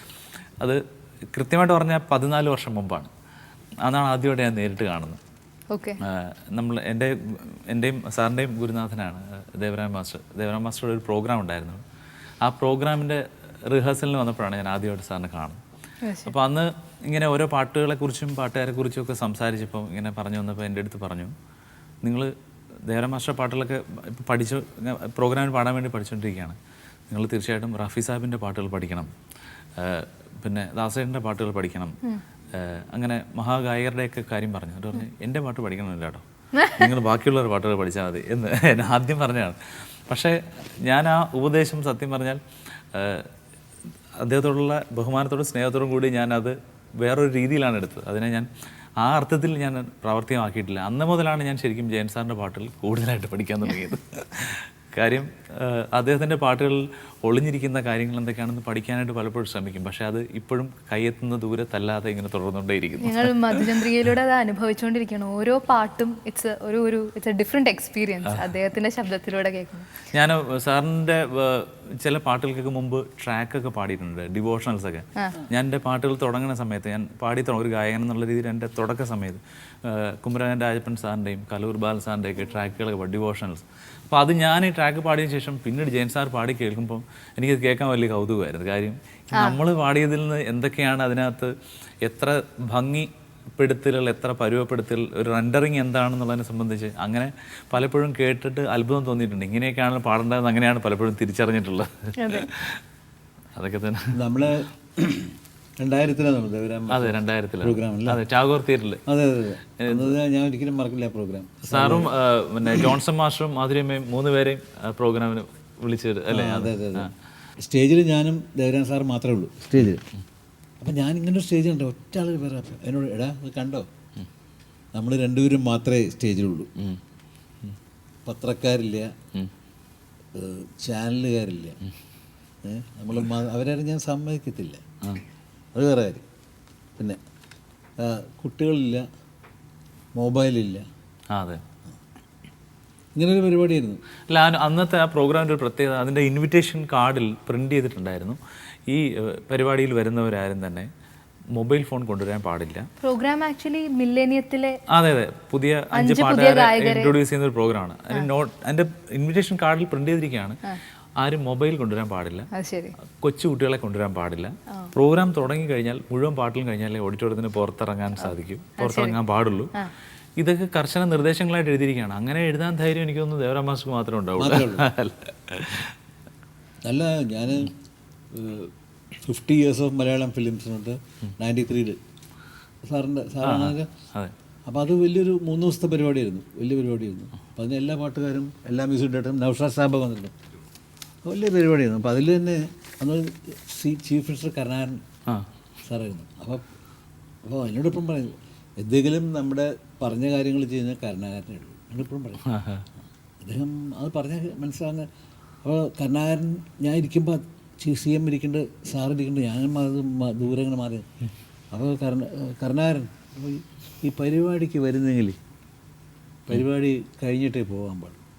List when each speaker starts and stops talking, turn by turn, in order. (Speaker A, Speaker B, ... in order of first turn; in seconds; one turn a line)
Speaker A: 1.3-3.1
Speaker A: 3.8-5.2
Speaker B: 5.7-6.0
Speaker A: 6.0-11.8
Speaker A: 12.4-15.6
Speaker B: 16.0-16.3
Speaker A: 16.2-21.3
Speaker A: 22.0-22.3
Speaker A: 22.9-26.6
Speaker A: 27.1-29.1
Speaker A: 29.8-32.0
Speaker A: 32.5-42.4
Speaker A: 42.9-43.3
Speaker A: 44.2-48.5
Speaker A: 49.0-63.8
Speaker B: 63.0-70.0
Speaker A: 70.1-91.5
Speaker A: 92.0-102.8
Speaker B: 102.2-102.5
Speaker A: 103.5-104.1
Speaker C: 104.1-108.2
Speaker A: 106.9-109.0
Speaker C: 109.1-112.1
Speaker A: 109.8-110.1
Speaker A: 111.6-117.1
Speaker C: 116.3-117.1
Speaker C: 117.6-120.0
Speaker C: 120.8-123.9
Speaker C: 124.9-126.7
Speaker C: 128.2-129.1
Speaker C: 130.3-131.8
Speaker C: 132.6-134.8
Speaker C: 135.7-136.2
Speaker C: 138.0-139.0
Speaker C: 140.1-140.8
Speaker A: 141.3-141.6
Speaker C: 143.1-144.0
Speaker A: 144.3-150.9
Speaker A: 151.5-152.9
Speaker B: 153.0-154.8
Speaker A: 154.9-160.6
Speaker B: 155.9-157.2
Speaker A: 161.2-162.5
Speaker B: 162.5-162.9
Speaker A: 163.0-169.7
Speaker B: 168.2-169.2
Speaker A: 170.4-175.9
Speaker C: 174.4-174.9
Speaker C: 176.8-177.7
Speaker C: 178.3-182.0
Speaker C: 182.8-183.9
Speaker A: 183.4-184.3
Speaker C: 184.7-190.3
Speaker C: 191.2-195.0
Speaker C: 195.8-196.6
Speaker C: 197.4-202.4
Speaker A: 202.4-202.9
Speaker C: 203.4-205.1
Speaker C: 205.6-211.1
Speaker C: 211.7-215.3
Speaker C: 216.5-218.2